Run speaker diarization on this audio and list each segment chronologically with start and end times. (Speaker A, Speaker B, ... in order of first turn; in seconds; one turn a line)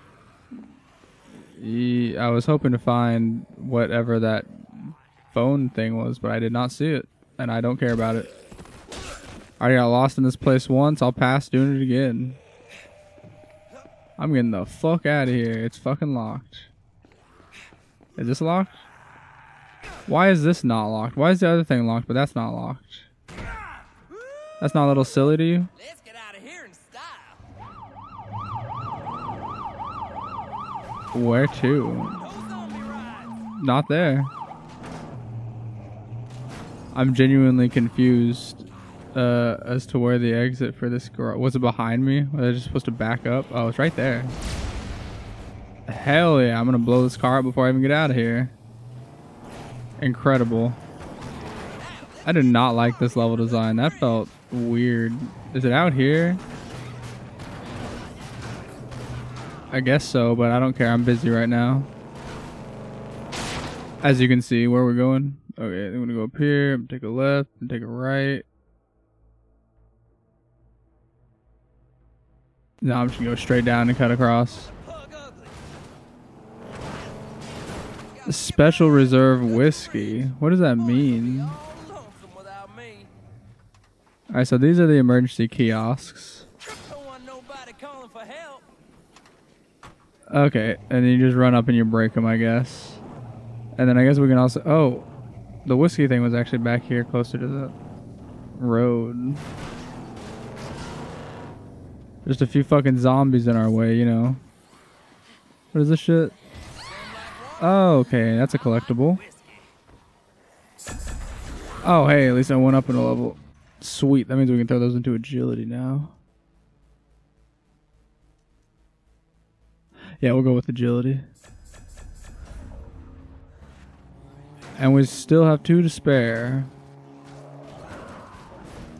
Speaker A: 1.4-8.3
Speaker A: 9.6-12.4
Speaker A: 14.2-16.7
Speaker A: 18.1-18.8
Speaker A: 20.1-23.1
Speaker A: 24.6-25.7
Speaker B: 25.7-27.4
Speaker A: 31.1-32.2
Speaker B: 32.2-33.4
Speaker A: 33.4-34.3
Speaker A: 36.9-44.3
Speaker A: 45.9-48.5
Speaker A: 50.0-50.8
Speaker B: 51.8-54.3
Speaker A: 52.2-56.4
Speaker A: 59.7-61.9
Speaker A: 64.0-68.4
Speaker A: 72.8-74.7
Speaker B: 74.5-75.6
Speaker B: 78.0-83.1
Speaker A: 78.2-81.5
Speaker A: 84.3-86.5
Speaker B: 86.7-88.7
Speaker A: 90.3-93.0
Speaker A: 93.7-95.0
Speaker A: 95.6-97.7
Speaker A: 98.5-99.4
Speaker A: 102.2-104.4
Speaker A: 105.7-106.3
Speaker B: 106.8-109.7
Speaker A: 107.6-109.2
Speaker A: 111.8-116.1
Speaker A: 120.2-121.2
Speaker A: 124.8-126.7